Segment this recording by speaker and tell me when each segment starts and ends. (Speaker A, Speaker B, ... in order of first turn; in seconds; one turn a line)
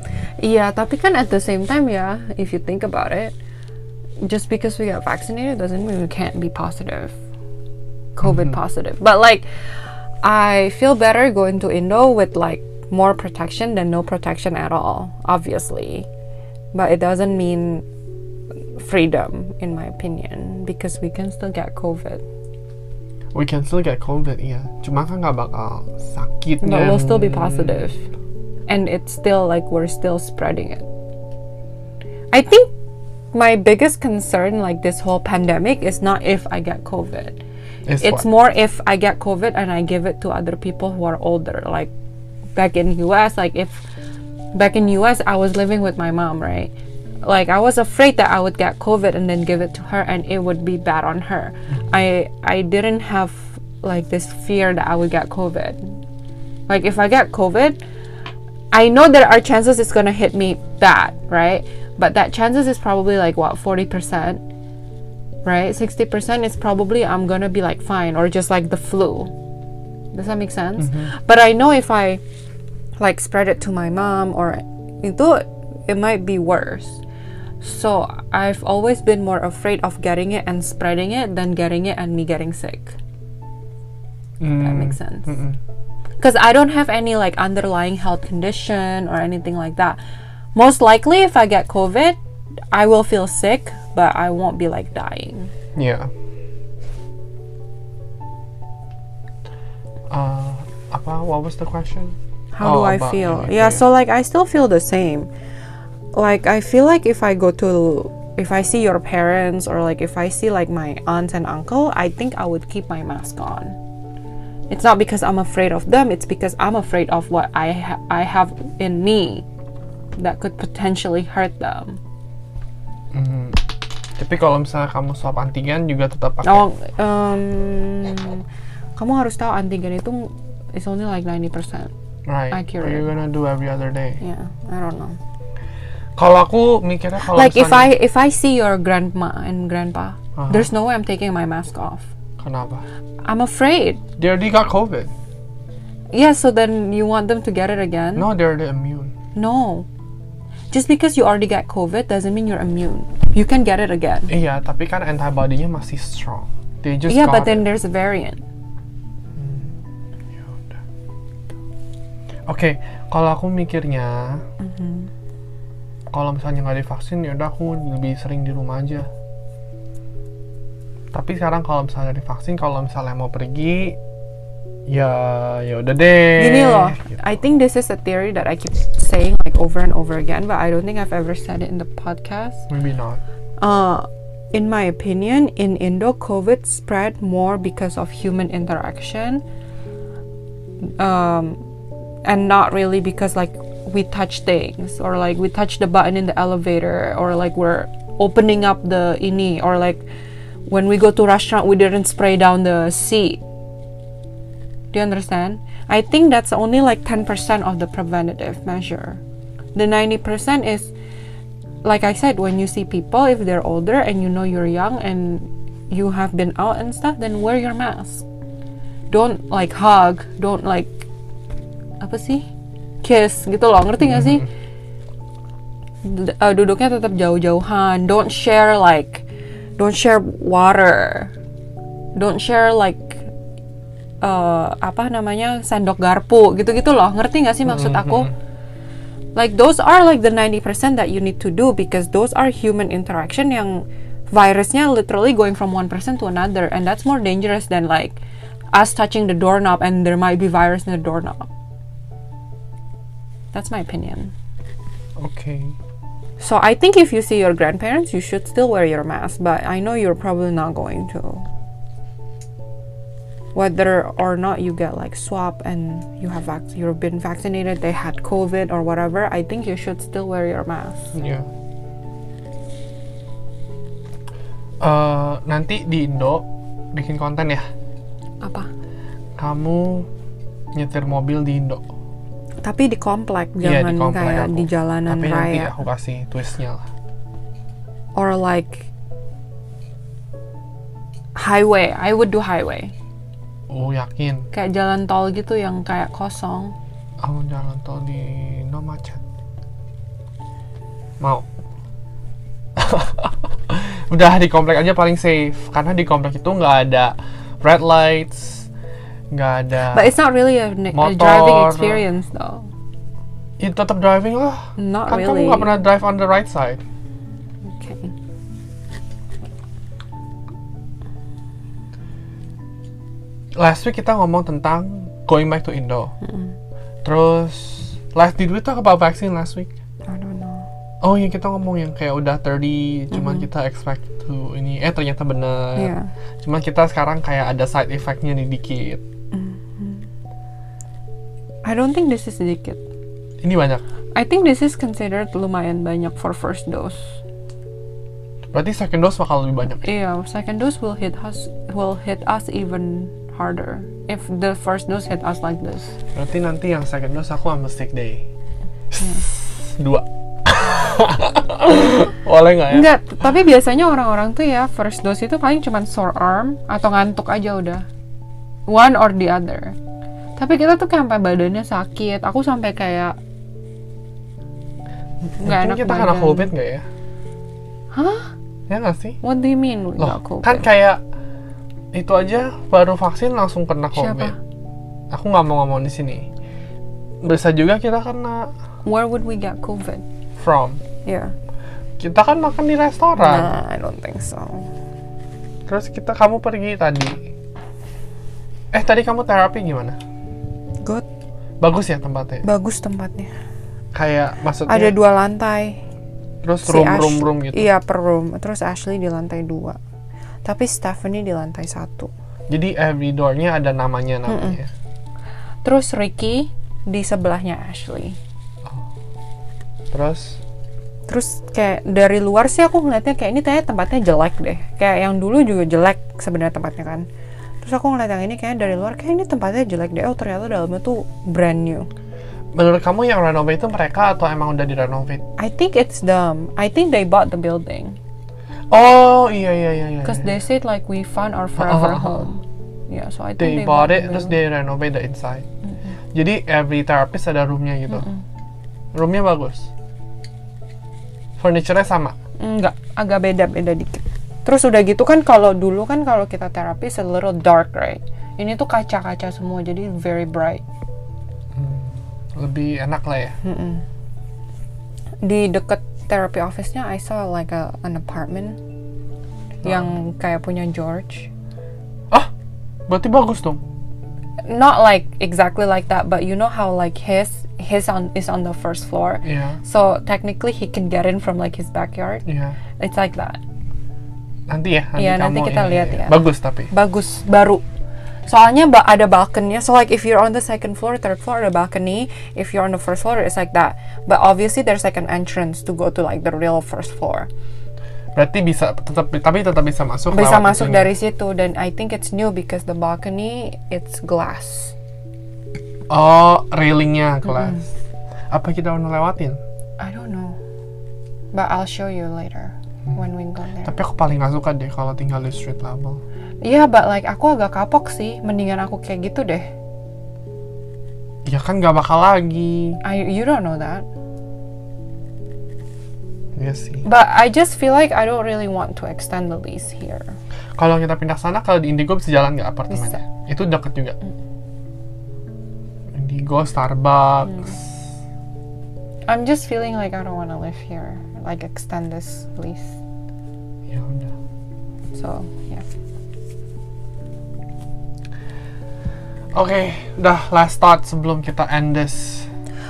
Speaker A: 0.4-3.4
Speaker A: 4.2-7.2
Speaker A: 8.2-9.5
Speaker B: 8.2-8.6
Speaker A: 10.2-16.1
Speaker A: 16.7-17.8
Speaker A: 18.7-22.2
Speaker B: 23.3-27.9
Speaker A: 26.6-28.0
Speaker A: 28.7-30.9
Speaker A: 32.3-32.7
Speaker A: 33.3-37.4
Speaker B: 37.9-38.3
Speaker A: 38.0-41.9
Speaker A: 42.5-43.8
Speaker A: 44.5-46.7
Speaker A: 47.2-56.0
Speaker A: 56.7-57.8
Speaker A: 58.7-64.4
Speaker A: 65.4-69.3
Speaker A: 70.1-72.2
Speaker B: 70.8-71.1
Speaker A: 73.0-77.0
Speaker A: 77.6-83.0
Speaker B: 84.4-85.6
Speaker A: 84.6-85.3
Speaker A: 86.2-90.0
Speaker A: 90.5-92.2
Speaker A: 92.7-95.5
Speaker B: 95.7-96.1
Speaker B: 100.1-103.8
Speaker A: 102.5-105.3
Speaker A: 106.1-113.8
Speaker A: 114.7-119.5
Speaker A: 120.2-122.0
Speaker B: 123.1-123.6
Speaker B: 124.2-126.7
Speaker A: 126.4-128.4
Speaker A: 128.9-131.9
Speaker B: 132.3-134.2
Speaker A: 132.5-133.1
Speaker A: 134.2-135.2
Speaker B: 136.2-137.9
Speaker A: 137.3-142.1
Speaker B: 140.3-140.7
Speaker B: 142.4-142.8
Speaker A: 143.2-144.0
Speaker B: 144.2-145.1
Speaker A: 146.1-148.3
Speaker B: 148.1-149.1
Speaker A: 149.3-149.9
Speaker A: 150.7-154.3
Speaker B: 154.3-157.6
Speaker A: 157.1-158.4
Speaker B: 159.3-159.8
Speaker B: 160.3-160.8
Speaker B: 162.5-164.4
Speaker A: 164.6-165.1
Speaker B: 166.1-169.1
Speaker B: 171.1-174.0
Speaker B: 174.9-177.2
Speaker A: 176.3-182.7
Speaker B: 182.7-183.2
Speaker A: 183.6-189.4
Speaker A: 191.0-191.6
Speaker A: 192.2-200.0
Speaker A: 200.7-203.4
Speaker A: 204.9-209.2
Speaker A: 209.7-210.9
Speaker A: 211.8-218.2
Speaker A: 219.1-220.9
Speaker A: 222.0-222.5
Speaker A: 223.0-224.5
Speaker B: 224.0-224.4
Speaker A: 226.0-229.2
Speaker A: 229.8-231.3
Speaker A: 232.1-233.2
Speaker A: 234.2-238.3
Speaker B: 237.6-238.3
Speaker A: 239.3-248.2
Speaker A: 248.7-251.5
Speaker A: 253.5-254.3
Speaker B: 255.2-255.8
Speaker A: 256.4-261.4
Speaker A: 263.5-271.1
Speaker B: 271.1-271.5
Speaker B: 274.8-277.6
Speaker A: 278.4-278.7
Speaker B: 279.4-280.1
Speaker B: 280.7-281.8
Speaker A: 282.6-285.8
Speaker B: 283.6-286.8
Speaker A: 288.1-288.9
Speaker A: 291.4-292.9
Speaker B: 293.7-294.5
Speaker A: 294.5-296.7
Speaker B: 297.2-299.2
Speaker B: 301.2-301.5
Speaker B: 302.8-308.7
Speaker B: 309.3-310.1
Speaker A: 309.9-312.7
Speaker B: 310.9-312.0
Speaker B: 313.6-316.8
Speaker A: 314.8-315.7
Speaker A: 317.6-318.1
Speaker B: 323.6-326.1
Speaker A: 326.2-326.5
Speaker B: 327.0-329.7
Speaker A: 330.1-330.7
Speaker B: 331.0-339.0
Speaker A: 333.1-333.5
Speaker A: 335.8-336.1
Speaker A: 339.3-340.1
Speaker A: 341.6-342.8
Speaker B: 343.4-343.8
Speaker A: 344.1-347.2
Speaker B: 348.5-349.9
Speaker A: 349.8-356.0
Speaker B: 356.1-358.2
Speaker B: 358.9-362.9
Speaker A: 362.7-367.9
Speaker A: 368.7-369.8
Speaker A: 370.4-373.2
Speaker B: 375.4-376.8
Speaker A: 375.4-376.5
Speaker A: 377.9-378.3
Speaker B: 378.7-379.2
Speaker A: 379.2-380.7
Speaker B: 380.0-381.0
Speaker B: 381.9-384.3
Speaker A: 383.9-384.4
Speaker B: 385.1-386.3
Speaker B: 387.2-388.5
Speaker A: 388.8-390.0
Speaker B: 390.4-390.8
Speaker A: 391.0-391.3
Speaker B: 392.0-393.5
Speaker A: 393.1-394.7
Speaker B: 395.7-397.2
Speaker B: 398.7-400.0
Speaker B: 401.6-402.4
Speaker A: 402.4-403.3
Speaker B: 403.9-404.9
Speaker A: 404.6-405.8
Speaker B: 406.4-407.7
Speaker A: 406.6-409.8
Speaker A: 410.4-412.1
Speaker B: 412.5-414.7
Speaker A: 414.3-414.6
Speaker A: 415.6-418.2
Speaker B: 419.9-420.4
Speaker A: 421.1-427.1
Speaker A: 427.6-431.9
Speaker B: 432.5-435.2
Speaker A: 435.4-438.0
Speaker B: 438.7-440.4
Speaker A: 440.0-444.4
Speaker B: 441.6-442.3
Speaker B: 443.4-445.4
Speaker B: 446.1-448.1
Speaker A: 447.9-448.2
Speaker B: 448.9-449.7
Speaker B: 451.4-452.1
Speaker A: 452.4-460.6
Speaker B: 461.5-463.4
Speaker A: 463.4-463.8
Speaker A: 465.2-468.6
Speaker A: 469.6-471.3
Speaker B: 469.6-469.9
Speaker B: 472.9-473.6
Speaker A: 474.4-482.2
Speaker B: 479.2-479.6
Speaker B: 482.2-482.6
Speaker A: 482.8-483.4
Speaker B: 484.5-486.7
Speaker A: 484.9-487.6
Speaker A: 488.3-497.3
Speaker B: 498.1-500.9
Speaker A: 500.1-504.7
Speaker B: 505.9-507.6
Speaker A: 507.2-507.6
Speaker B: 508.3-509.4
Speaker A: 509.8-510.4
Speaker A: 511.3-513.7
Speaker B: 513.6-516.0
Speaker A: 516.4-519.5
Speaker B: 521.2-522.8
Speaker A: 522.8-523.8
Speaker B: 526.3-526.9
Speaker A: 526.8-530.2
Speaker B: 530.6-534.0
Speaker A: 532.7-533.0
Speaker B: 535.9-537.9
Speaker A: 539.1-542.8
Speaker B: 543.7-544.1
Speaker A: 544.9-545.6
Speaker B: 549.3-552.3